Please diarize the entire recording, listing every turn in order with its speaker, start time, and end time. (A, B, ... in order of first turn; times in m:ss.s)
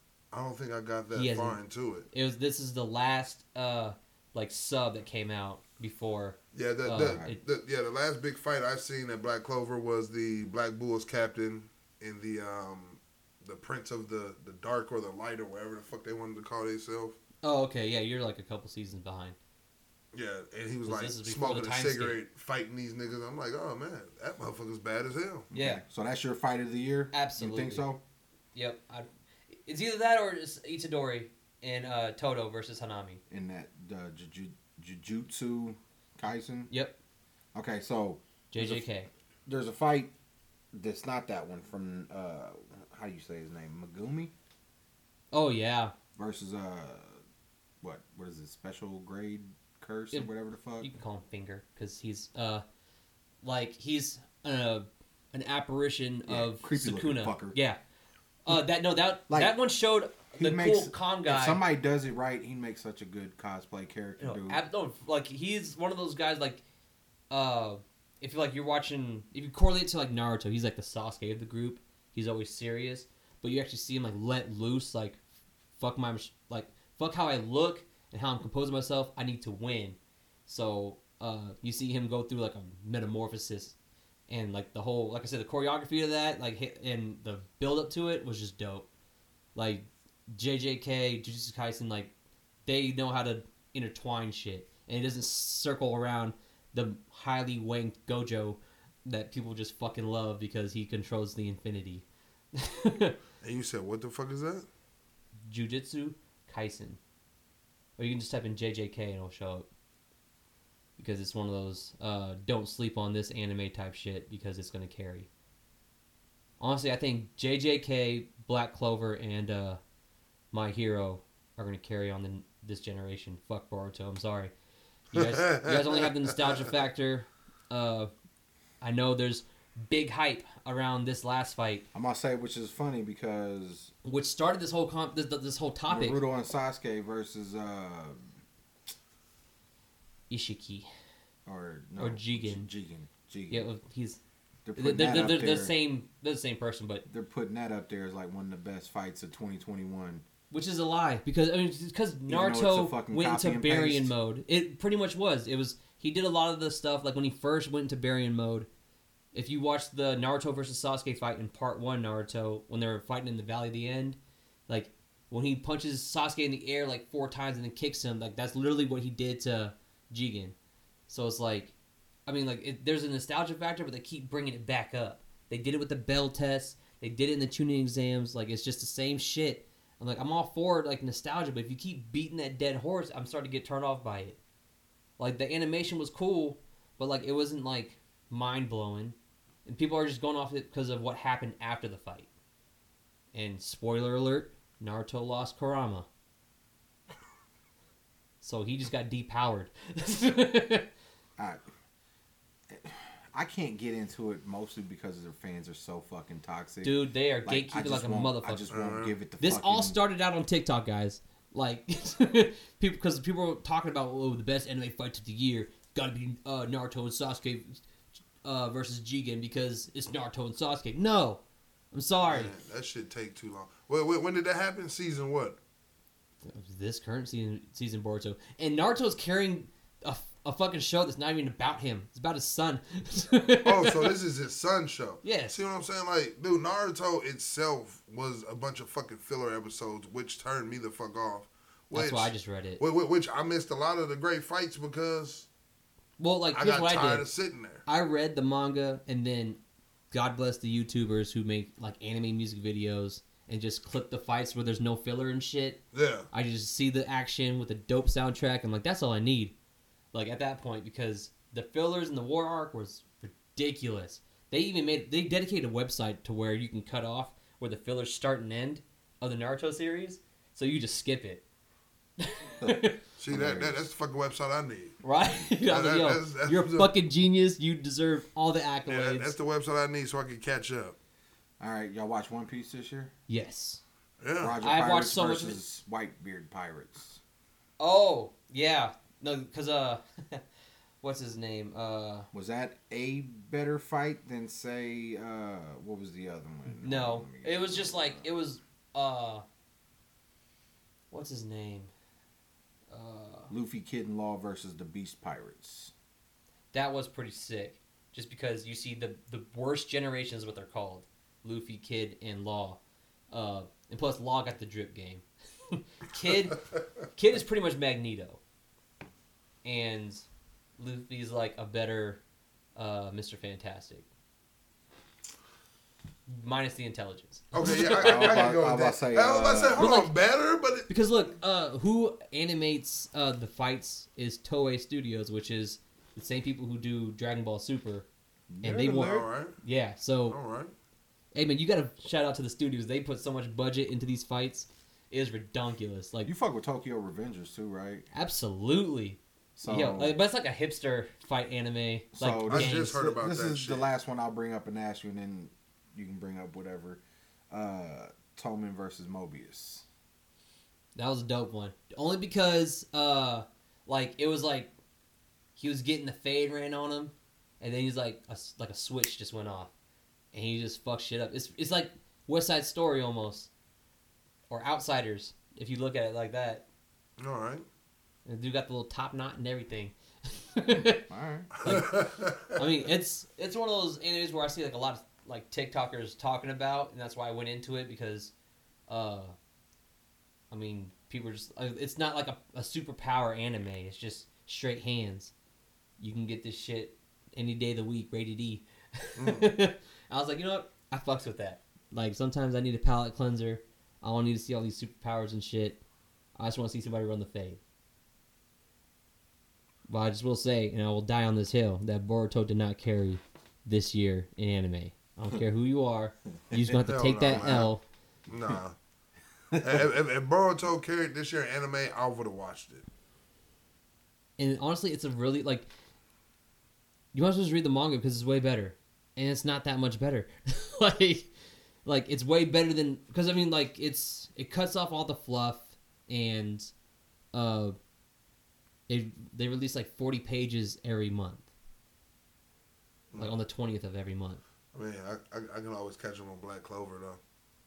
0:00.3-0:02.1 A
0:01.1-0:01.6 B
0:02.1-0:07.4 B
0:06.5-0:17.2 A
0:07.0-0:07.3 C
0:17.4-0:19.4 B
0:20.1-0:25.5 A
0:20.8-0:22.2 B
0:25.5-0:28.0 C
0:25.5-0:25.8 B
0:27.1-0:27.9 B
0:28.6-0:33.2 B
0:33.3-0:36.7 C
0:36.7-0:37.0 B
0:37.5-0:38.8 C
0:38.5-0:39.1 B
0:39.5-0:40.1 C
0:40.7-0:44.3 C
0:45.3-0:45.9 B
0:46.2-0:47.2 C
0:47.8-0:50.9 C
0:50.1-0:52.6 B
0:53.4-0:57.8 B
0:56.3-0:57.6 C
0:58.5-1:01.6 B
0:59.3-0:59.5 C
1:00.3-1:04.6 C
1:04.2-1:06.6 B
1:07.3-1:15.2 B
1:15.8-1:23.8 B
1:24.3-1:28.9 B
1:29.6-1:32.1 B
1:32.7-1:43.2 B
1:43.4-1:44.7 A
1:45.5-1:47.0 B
1:48.0-1:49.7 B
1:51.0-1:55.3 B
1:56.6-1:59.8 B
2:00.5-2:04.5 B
2:05.1-2:08.1 B
2:05.2-2:06.0 A
2:08.8-2:11.9 B
2:11.9-2:13.9 C
2:14.0-2:16.2 B
2:15.9-2:18.3 C
2:20.3-2:20.9 B
2:21.5-2:23.7 C
2:22.0-2:22.7 B
2:23.5-2:24.2 B
2:24.7-2:25.8 C
2:24.8-2:27.0 B
2:27.1-2:30.2 C
2:30.5-2:38.7 B
2:32.3-2:34.1 C
2:39.3-2:50.6 B
2:51.1-2:51.8 B
2:52.3-3:04.4 B
3:05.2-3:12.3 B
3:13.3-3:16.1 B
3:18.4-3:20.9 B
3:21.4-3:21.6 C
3:22.7-3:30.0 C
3:26.8-3:28.7 B
3:28.7-3:29.2 A
3:29.4-3:37.8 B
3:38.4-3:41.4 B
3:41.9-3:42.5 B
3:42.2-3:45.6 A
3:46.4-3:54.1 B
3:53.6-4:05.5 A
3:55.2-3:55.6 B
4:01.9-4:02.8 B
4:06.2-4:07.3 B
4:06.5-4:07.8 A
4:07.9-4:15.8 B
4:15.9-4:16.3 A
4:16.3-4:19.6 B
4:20.1-4:31.5 B
4:32.2-4:33.0 B
4:32.6-4:33.8 C
4:33.2-4:35.0 A
4:35.0-4:39.4 B
4:35.7-4:36.9 A
4:38.9-4:41.0 A
4:41.6-4:43.1 C
4:43.3-4:43.8 B
4:44.2-4:44.6 A
4:44.4-4:47.2 C
4:44.6-4:45.6 B
4:47.8-4:50.4 B
4:51.0-4:52.3 B
4:52.3-4:58.3 C
4:56.7-4:59.4 B
5:01.1-5:01.9 B
5:02.9-5:03.5 B
5:03.5-5:05.9 C
5:06.7-5:12.8 B
5:13.3-5:18.4 B
5:19.6-5:20.3 B
5:20.8-5:22.2 B
5:22.8-5:24.1 B
5:26.3-5:28.5 B
5:27.5-5:30.9 A
5:27.9-5:29.9 C
5:29.8-5:30.1 B
5:30.9-5:38.1 B
5:38.5-5:39.3 C
5:38.6-5:40.4 B
5:39.0-5:39.6 A
5:40.3-5:40.7 A
5:41.3-5:46.3 B
5:46.3-5:48.1 C
5:48.1-5:53.0 B
5:49.6-5:50.2 C
5:52.2-5:59.8 C
5:52.5-5:53.9 A
6:01.0-6:04.7 B
6:05.6-6:09.7 B
6:10.3-6:13.5 B
6:14.5-6:16.7 B
6:17.2-6:17.6 A
6:18.3-6:21.1 B
6:20.7-6:21.8 C
6:21.6-6:28.3 B
6:21.6-6:22.5 A
6:28.9-6:29.4 B
6:30.5-6:35.3 B
6:36.0-6:45.8 B
6:39.2-6:39.5 A
6:46.4-6:47.6 B
6:49.9-6:57.8 B
6:56.5-6:57.7 C
6:56.9-6:57.7 A
6:58.3-6:58.8 A
6:59.5-6:59.8 C
6:59.6-7:02.8 A
7:04.4-7:05.7 B
7:07.1-7:11.3 B
7:11.8-7:16.7 B
7:17.3-7:17.8 B
7:18.9-7:21.5 B
7:23.2-7:24.4 B
7:24.7-7:27.2 A